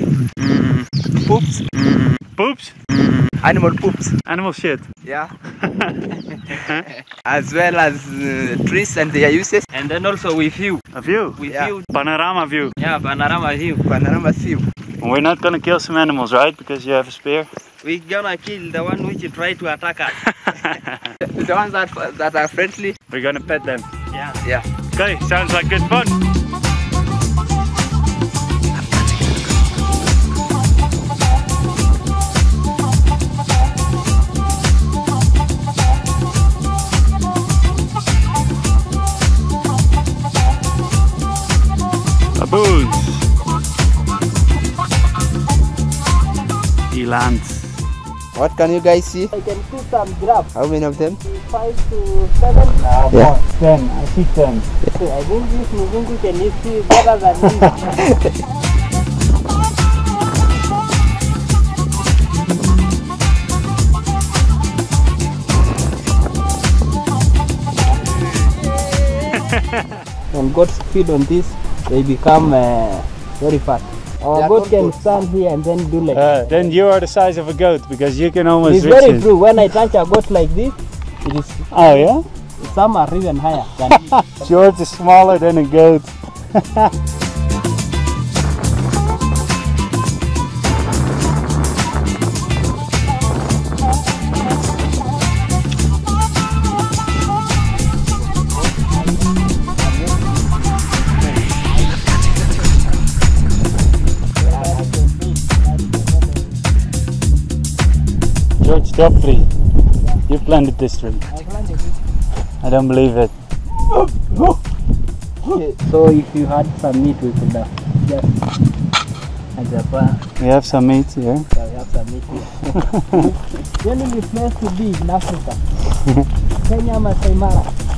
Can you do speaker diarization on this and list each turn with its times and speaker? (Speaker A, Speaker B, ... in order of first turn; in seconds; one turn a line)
Speaker A: 0.4-0.9
Speaker B: 1.1-1.7
Speaker A: 1.8-3.3
Speaker B: 3.4-4.2
Speaker A: 4.3-4.8
Speaker B: 5.0-5.3
Speaker A: 5.6-6.9
Speaker B: 7.2-9.7
Speaker C: 9.7-10.8
Speaker A: 10.9-12.7
Speaker C: 11.4-11.8
Speaker B: 11.5-11.7
Speaker C: 12.8-13.8
Speaker B: 13.8-14.6
Speaker A: 15.0-17.5
Speaker C: 17.8-20.1
Speaker A: 20.2-21.1
Speaker B: 21.2-23.0
Speaker A: 23.1-23.9
Speaker C: 24.1-24.4
Speaker A: 24.9-26.2
Speaker A: 42.4-43.2
Speaker A: 46.9-47.8
Speaker B: 48.3-49.3
Speaker C: 49.3-50.5
Speaker B: 50.5-51.2
Speaker C: 51.2-52.8
Speaker A: 52.8-54.6
Speaker C: 54.8-57.9
Speaker A: 69.3-70.0
Speaker C: 70.3-76.8
Speaker B: 74.3-75.0
Speaker A: 76.1-79.3
Speaker C: 78.6-82.0
Speaker A: 81.7-82.2
Speaker C: 82.6-84.1
Speaker A: 84.0-86.9
Speaker C: 98.9-100.3
Speaker C: 104.4-106.6
Speaker B: 104.6-104.8
Speaker A: 108.6-109.5
Speaker A: 110.3-111.2
Speaker C: 111.3-112.0
Speaker A: 112.6-113.3
Speaker C: 115.5-118.4
Speaker C: 119.5-120.2
Speaker A: 120.4-121.5
Speaker C: 121.5-125.6
Speaker A: 122.9-123.2
Speaker C: 126.6-127.7